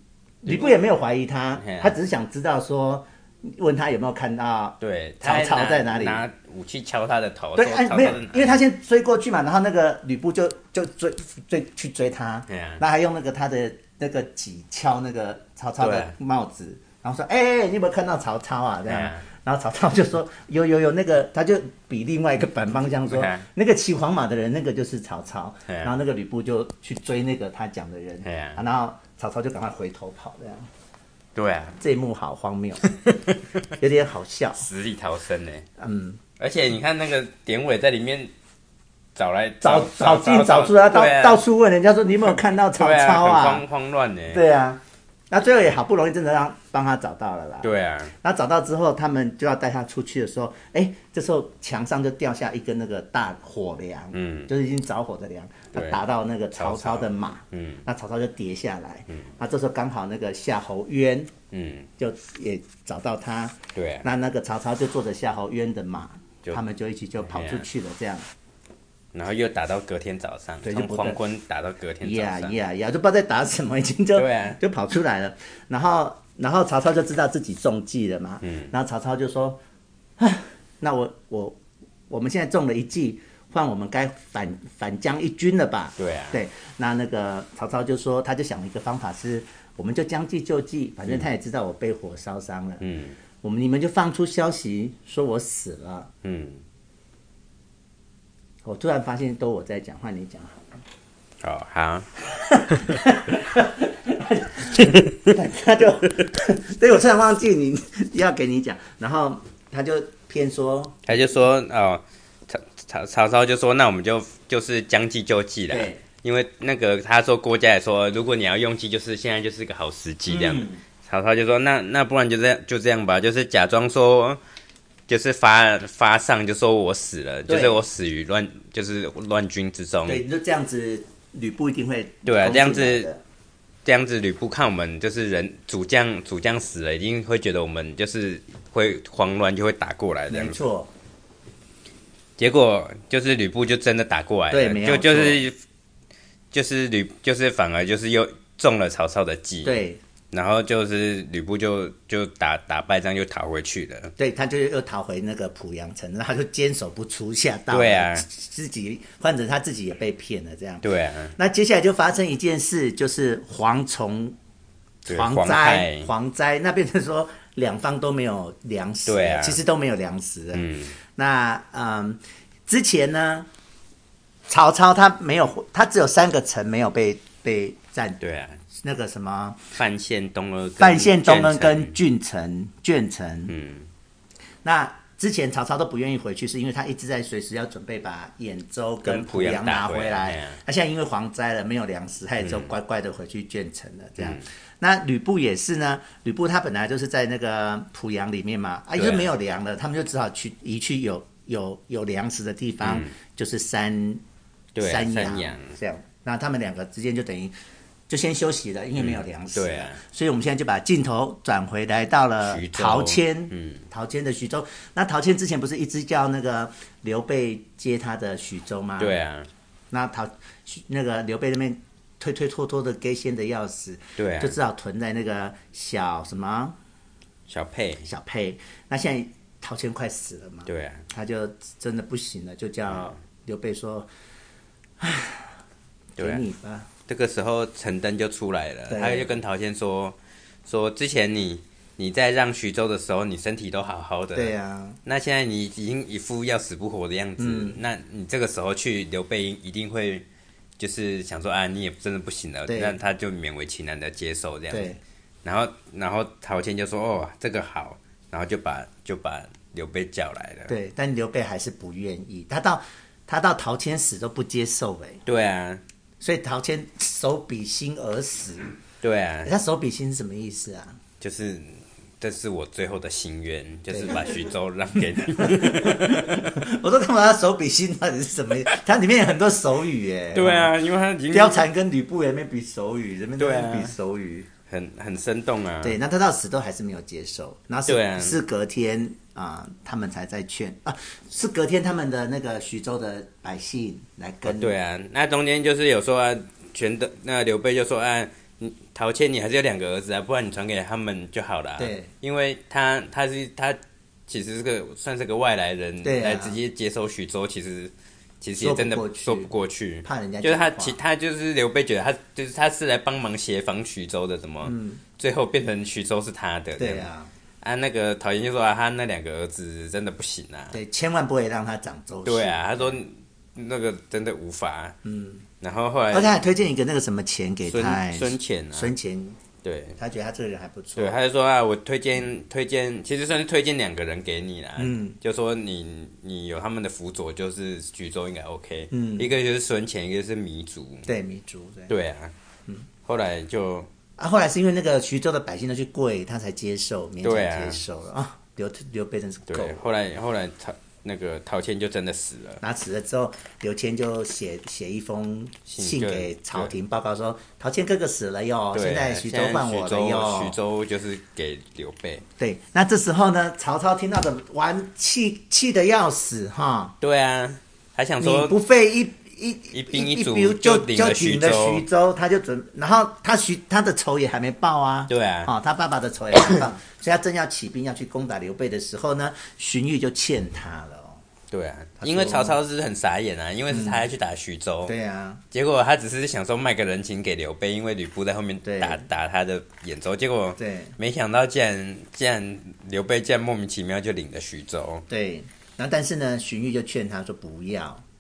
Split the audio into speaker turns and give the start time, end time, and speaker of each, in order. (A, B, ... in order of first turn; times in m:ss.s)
0:00.4-0:06.2 A
0:01.6-0:01.9 B
0:04.8-0:08.6 B
0:07.6-0:30.7 A
0:12.5-0:12.8 B
0:15.8-0:16.2 B
0:18.9-0:19.2 B
0:23.1-0:23.4 B
0:28.2-0:28.6 B
0:31.4-0:31.8 B
0:31.8-0:32.9 A
0:33.1-0:33.4 B
0:33.8-0:34.7 A
0:34.6-0:35.6 B
0:35.8-0:36.2 A
0:36.4-0:38.3 B
0:39.2-0:41.4 B
0:39.6-0:43.6 A
0:42.8-0:44.4 B
0:44.3-1:01.3 A
0:47.6-0:48.1 B
0:54.1-0:54.5 B
0:55.7-0:56.0 B
0:56.6-0:57.8 B
1:01.5-1:01.9 B
1:02.0-1:08.3 A
1:03.8-1:04.1 B
1:07.3-1:07.7 B
1:09.1-1:12.6 B
1:10.6-1:11.2 A
1:12.0-1:19.6 A
1:14.2-1:14.6 B
1:18.4-1:18.7 B
1:20.2-1:21.6 A
1:22.1-1:32.8 A
1:26.0-1:26.4 B
1:32.8-1:33.2 B
1:33.4-1:36.1 A
1:36.2-1:36.6 B
1:38.6-1:40.6 A
1:41.4-1:42.1 B
1:42.3-1:51.0 A
1:51.1-2:04.4 B
1:55.7-1:56.0 A
2:00.3-2:00.8 A
2:05.1-2:10.2 B
2:07.5-2:07.8 A
2:10.1-2:13.2 A
2:12.3-2:13.1 B
2:13.8-2:20.6 B
2:20.3-2:20.9 A
2:22.4-2:25.6 B
2:24.5-2:25.4 A
2:26.5-2:29.8 B
2:29.6-2:30.0 A
2:30.3-2:34.1 B
2:34.2-2:44.4 A
2:37.7-2:38.3 B
2:40.8-2:41.4 B
2:45.1-2:46.1 B
2:45.1-2:53.5 A
2:49.1-2:49.6 B
2:50.5-2:51.0 B
2:54.5-2:58.2 A
2:58.2-2:58.6 B
2:58.7-2:59.6 A
2:59.8-3:01.9 B
3:00.8-3:03.5 A
3:03.5-3:03.9 B
3:04.6-3:24.2 A
3:09.0-3:10.6 B
3:12.4-3:12.7 B
3:14.2-3:14.4 B
3:19.0-3:19.3 B
3:22.8-3:23.1 B
3:24.8-3:25.8 B
3:24.8-3:27.5 A
3:28.1-3:39.2 A
3:29.0-3:30.0 B
3:32.4-3:33.8 B
3:39.0-3:39.5 B
3:39.9-3:46.8 A
3:44.2-3:44.6 B
3:47.5-3:48.1 B
3:48.0-3:54.1 A
3:50.7-3:51.0 B
3:55.0-3:55.6 A
3:56.2-3:56.9 A
3:56.2-3:56.4 B
3:57.1-4:04.5 B
3:58.9-3:59.3 A
4:04.3-4:05.0 A
4:05.0-4:10.2 B
4:07.4-4:07.8 A
4:10.8-4:20.8 B
4:12.7-4:13.0 A
4:14.7-4:15.0 A
4:20.7-4:25.2 A
4:25.3-4:25.8 B
4:26.2-4:28.8 A
4:29.0-4:29.5 B
4:29.4-4:31.0 A
4:31.2-4:36.4 B
4:33.9-4:34.4 A
4:35.4-4:40.7 A
4:40.3-4:41.7 B
4:41.3-4:44.5 A
4:43.4-4:43.9 B
4:44.7-4:46.0 B
4:45.8-4:54.7 A
4:47.9-4:48.4 B
4:54.4-5:17.1 B
5:01.8-5:02.1 A
5:06.0-5:06.6 A
5:08.6-5:09.5 A
5:10.0-5:11.0 A
5:14.6-5:15.0 A
5:16.8-5:17.3 A
5:17.6-5:20.8 B
5:20.7-5:23.0 A
5:22.3-5:25.0 B
5:25.0-5:25.4 A
5:25.6-5:26.4 B
5:26.1-5:29.4 A
5:27.7-5:28.9 B
5:29.6-5:30.0 B
5:30.0-5:31.2 A
5:31.0-5:41.1 B
5:34.8-5:35.2 A
5:38.9-5:39.3 A
5:41.1-5:41.9 A
5:41.9-5:42.3 B
5:43.0-5:43.9 B
5:44.2-5:49.8 A
5:47.2-5:47.8 B
5:49.5-5:52.6 B
5:52.6-6:00.6 A
5:55.7-5:56.7 B
5:58.7-6:02.2 B
6:02.4-6:07.0 A
6:07.0-6:08.6 B
6:08.2-6:21.2 A
6:09.7-6:11.8 B
6:15.1-6:15.5 B
6:21.5-6:24.9 B
6:22.0-6:22.6 A
6:23.7-6:24.0 A
6:24.9-6:25.4 A
6:25.5-6:35.0 B
6:28.6-6:29.0 A
6:30.6-6:31.0 A
6:35.1-6:38.0 A